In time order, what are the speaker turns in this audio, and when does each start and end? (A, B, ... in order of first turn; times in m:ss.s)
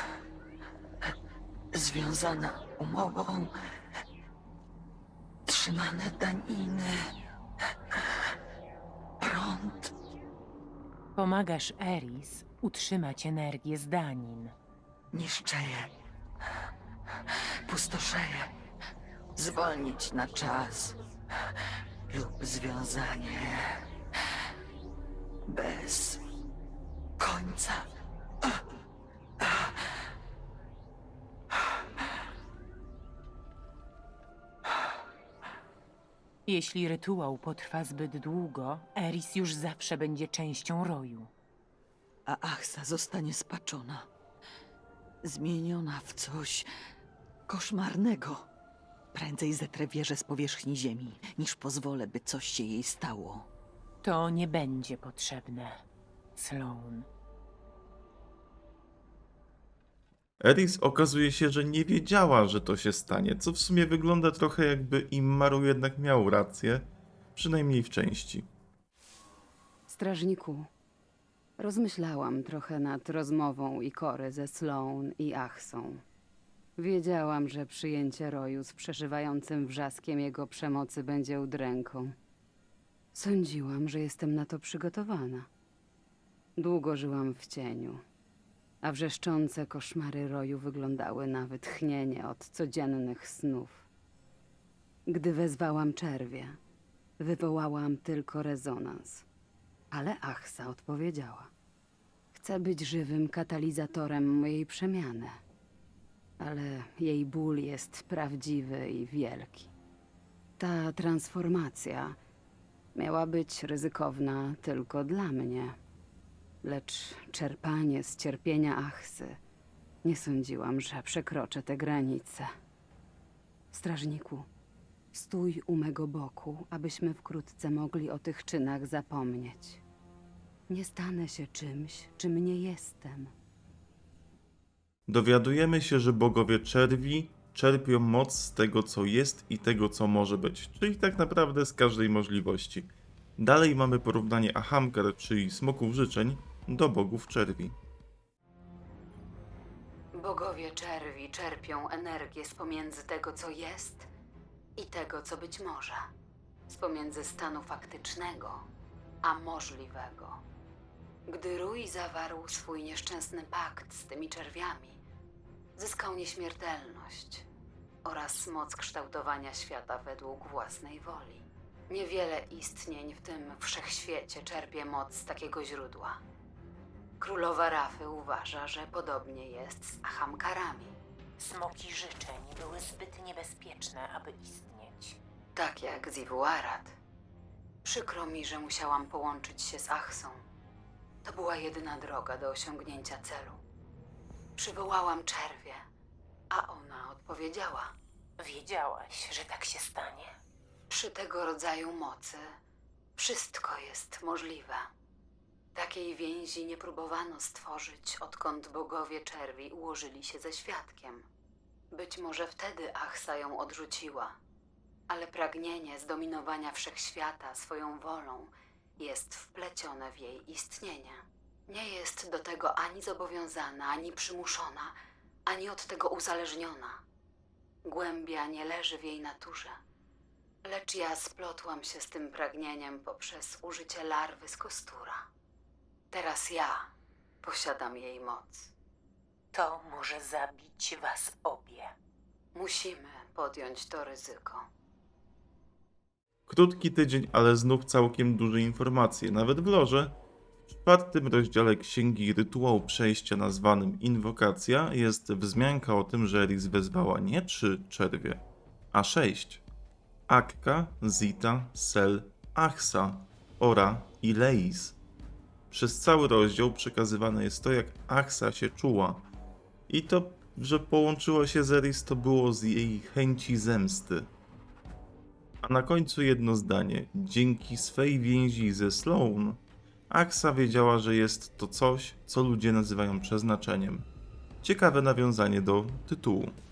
0:01.7-0:03.5 A
0:05.5-0:07.1 A
0:09.2-0:09.9 A
0:11.2-0:14.6 B
0:15.1-0:15.9 A
0:17.7-0:18.5 A
0:19.4-0:21.0 A
0:22.1-0:23.8 A
0:25.5-0:26.2 A
0:27.2-0:27.9 A
0:36.5-0:41.3 B
0:42.3-0:44.1 A
0:45.2-0:46.7 A
0:47.5-0:48.5 A
0:49.1-0:53.5 A
0:54.0-0:55.8 B
0:56.4-0:57.1 B
1:00.4-1:08.5 C
1:09.9-1:10.7 D
1:11.6-1:16.0 D
1:16.8-1:22.2 D
1:23.2-1:25.5 D
1:26.6-1:28.0 D
1:28.8-1:33.9 D
1:35.1-1:36.6 D
1:37.2-1:39.3 D
1:39.9-1:41.5 D
1:42.3-1:45.4 D
1:46.4-1:49.7 D
1:50.6-1:52.2 D
1:53.0-1:55.8 D
1:56.6-1:59.4 D
2:00.0-2:02.5 D
2:03.7-2:04.5 D
2:05.1-2:09.8 D
2:10.7-2:13.3 D
2:15.1-2:27.8 C
2:30.1-2:34.1 D
2:34.8-2:36.1 D
2:36.7-2:38.7 D
2:39.2-2:40.4 D
2:41.3-2:45.0 D
2:45.8-2:47.5 D
2:48.0-2:56.2 D
2:57.2-3:01.0 D
3:01.4-3:05.2 B
3:05.6-3:07.0 D
3:07.8-3:10.4 D
3:11.2-3:13.6 D
3:14.6-3:15.9 D
3:16.5-3:17.9 D
3:18.4-3:20.4 B
3:20.9-3:22.6 D
3:23.2-3:24.9 D
3:25.8-3:31.3 D
3:31.9-3:34.4 D
3:35.1-3:44.9 D
3:45.5-3:47.0 D
3:47.8-3:49.8 D
3:50.6-3:55.2 D
3:56.1-3:56.9 D
3:57.4-3:58.7 D
3:59.5-4:01.9 B
4:02.5-4:04.7 D
4:06.5-4:10.2 C
4:10.7-4:19.6 C
4:20.3-4:25.0 C
4:25.7-4:29.3 C
4:29.9-4:34.3 C
4:35.6-4:44.1 C
4:44.6-4:46.6 C